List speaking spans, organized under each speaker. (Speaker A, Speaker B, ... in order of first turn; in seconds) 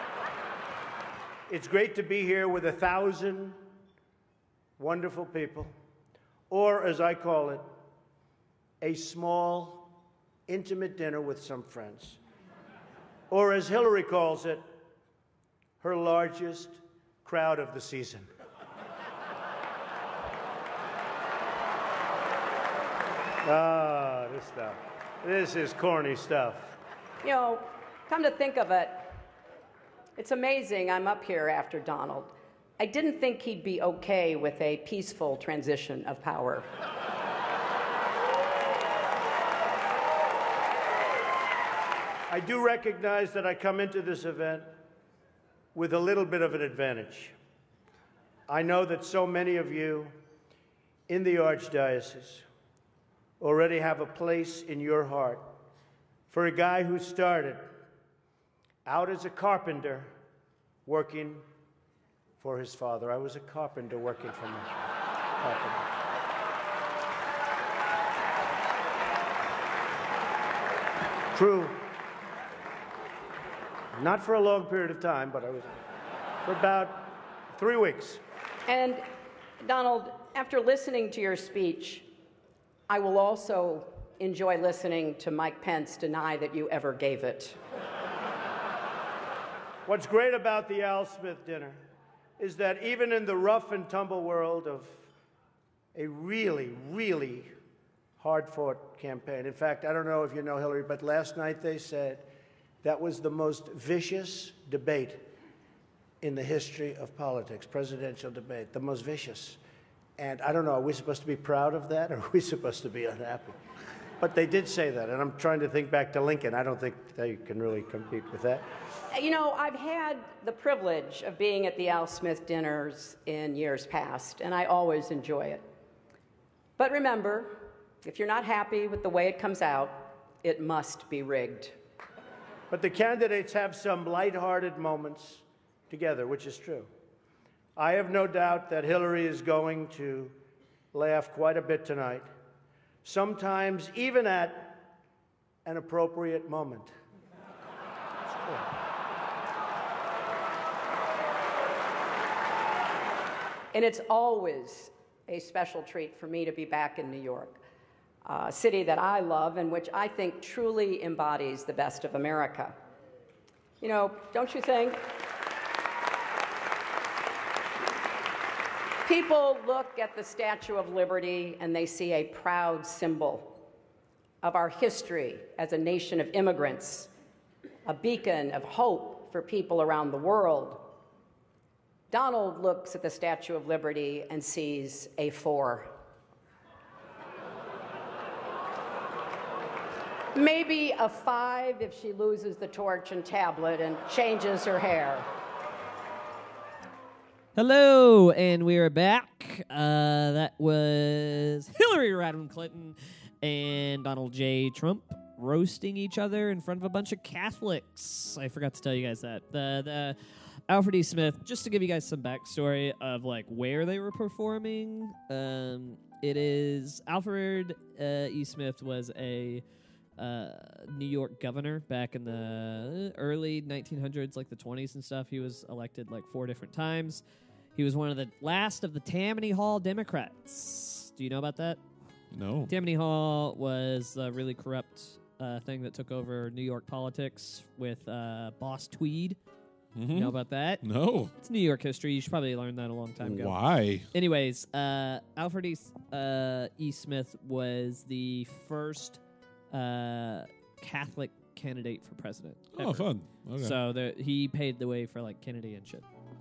Speaker A: 1.5-3.6, 4.8-5.7, 6.5-7.7, 8.8-9.9, 10.5-12.2, 13.3-14.6, 15.8-18.3, 23.4-26.8, 42.3-44.7, 45.7-47.3, 48.5-50.1, 51.1-52.4, 53.4-55.5, 56.3-57.7, 58.9-60.1, 60.9-61.4, 62.4-64.9, 65.4-65.9, 71.3-71.9, 74.0-75.7, 76.5-78.2, 89.9-91.8, 92.4-95.0, 95.9-97.5, 98.2-102.3, 102.8-105.2, 106.2-109.6, 110.2-113.6, 114.2-118.6, 132.7-136.9, 137.8-140.3, 140.9-142.3, 143.0-144.8, 145.7-146.9, 148.4-148.7
Speaker B: 27.2-29.2, 30.2-36.7, 78.7-79.0, 79.6-82.1, 82.9-87.6, 119.1-125.6, 126.8-131.7, 153.7-157.6, 158.2-162.8, 163.8-165.0, 169.1-173.6, 174.4-177.1, 177.8-180.9, 182.1-185.9, 190.3-195.3
Speaker C: 197.6-210.2, 210.7-219.6, 220.2-227.2, 227.8-231.8, 232.7-239.4, 240.1-240.8, 241.4-243.6, 244.1-249.2, 249.7-253.1, 253.6-256.0
Speaker D: 232.3-232.7, 239.9-241.3, 243.2-244.1, 252.7-253.8